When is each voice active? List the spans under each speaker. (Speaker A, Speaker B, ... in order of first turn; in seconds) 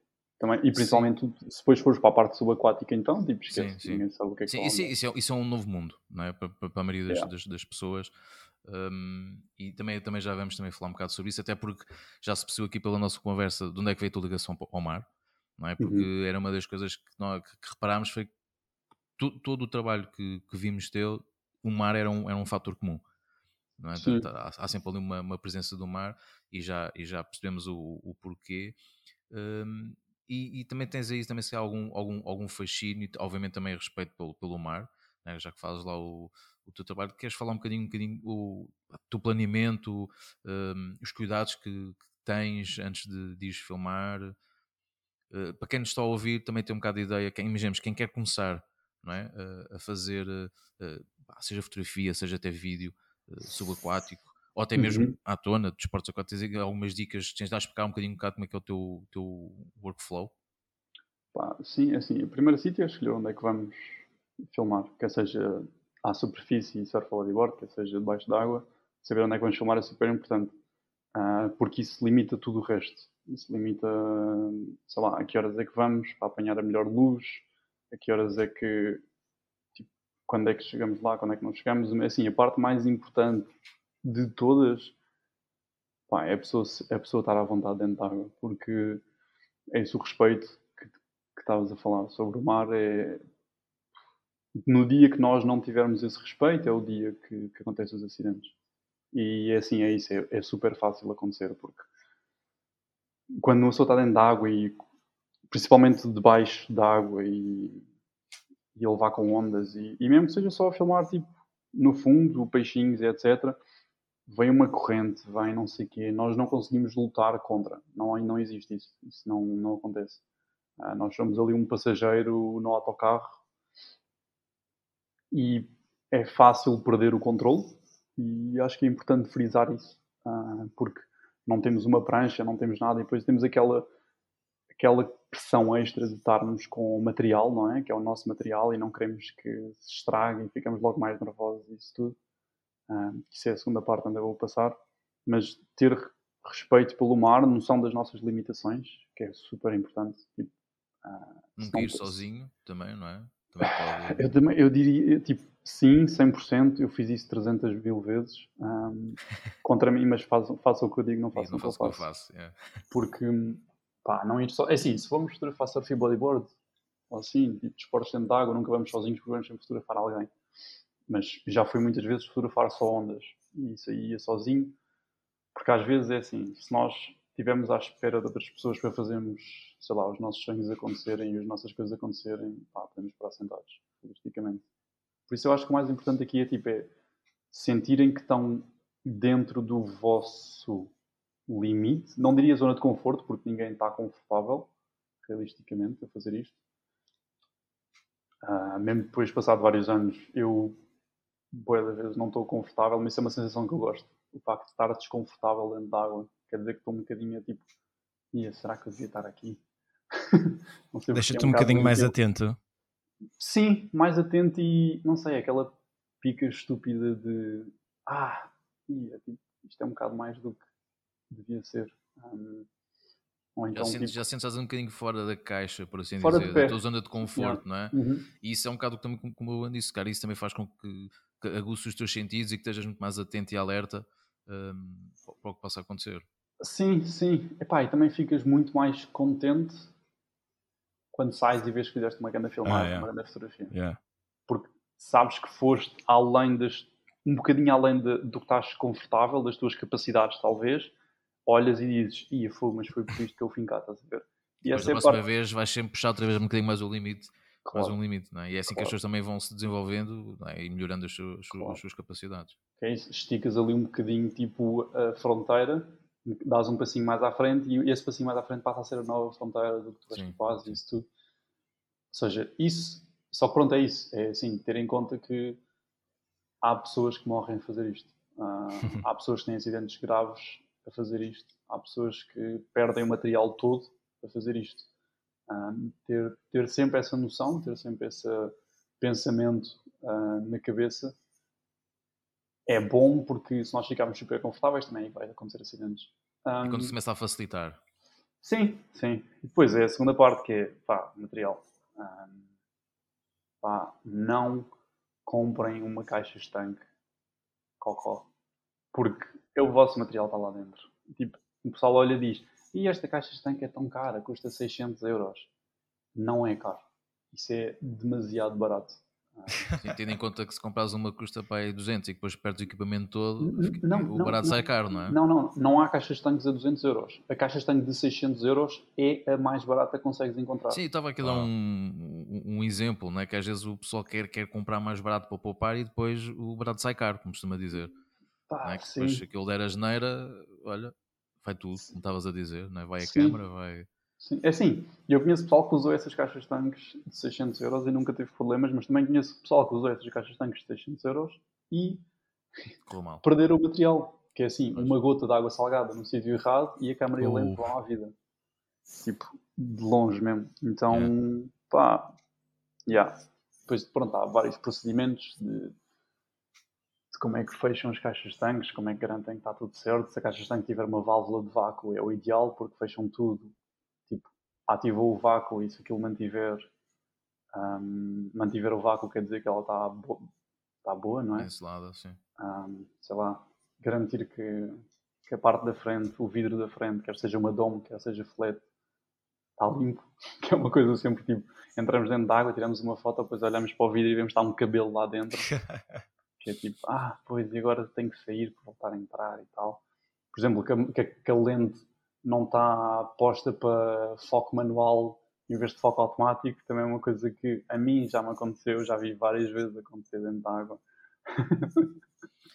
Speaker A: 0.4-4.9, 15.8-16.1, 24.0-24.3, 54.8-55.1, 61.3-70.5, 71.2-79.0, 79.8-83.5, 84.0-85.0, 86.1-89.0, 89.7-93.2, 94.6-98.5, 99.1-101.9, 103.3-104.8, 105.5-107.8, 108.8-113.6, 114.3-120.2, 120.8-123.4, 125.3-133.9, 134.8-142.2, 142.9-150.5, 151.1-152.2, 153.6-162.1, 162.9-166.5, 167.1-170.3, 171.1-174.8, 175.6-184.7, 185.3-186.9, 187.5-190.9, 191.5-194.7, 195.2-196.6, 198.4-200.8, 201.5-207.6, 208.3-209.6, 210.1-212.2, 213.4-220.6, 221.3-222.7, 223.6-224.2, 226.2-228.3, 236.6-239.9, 241.1-243.7, 244.5-250.9, 251.5-255.2, 257.6-257.9, 258.7-258.9, 261.5-261.8, 262.8-271.1, 272.1-275.6, 276.6-284.9, 285.5-291.2, 292.7-297.0, 298.4-302.4, 303.6-304.7, 305.3-306.9, 307.8-308.3, 308.9-315.5, 316.1-319.7, 323.4-331.4, 338.5-339.2, 343.0-343.4, 344.2-352.0, 353.2-358.1, 358.9-362.1, 362.9-365.7, 367.1-373.5, 374.1-376.7, 377.5-380.3, 380.8-381.5, 382.4-388.6, 389.6-395.5, 396.4-399.8, 400.3-411.9
Speaker B: 0.8-1.1, 3.5-18.3, 19.2-23.0, 23.8-28.8, 29.3-44.4, 45.3-60.3, 151.6-154.3, 161.3-162.6, 223.8-236.3, 254.7-262.6, 270.1-270.8, 296.6-297.8, 319.7-325.2, 330.7-337.9, 338.6-343.9, 352.9-353.2, 381.4-382.2
Speaker C: 211.1-212.6, 242.7-243.1, 243.7-244.0, 357.2-357.6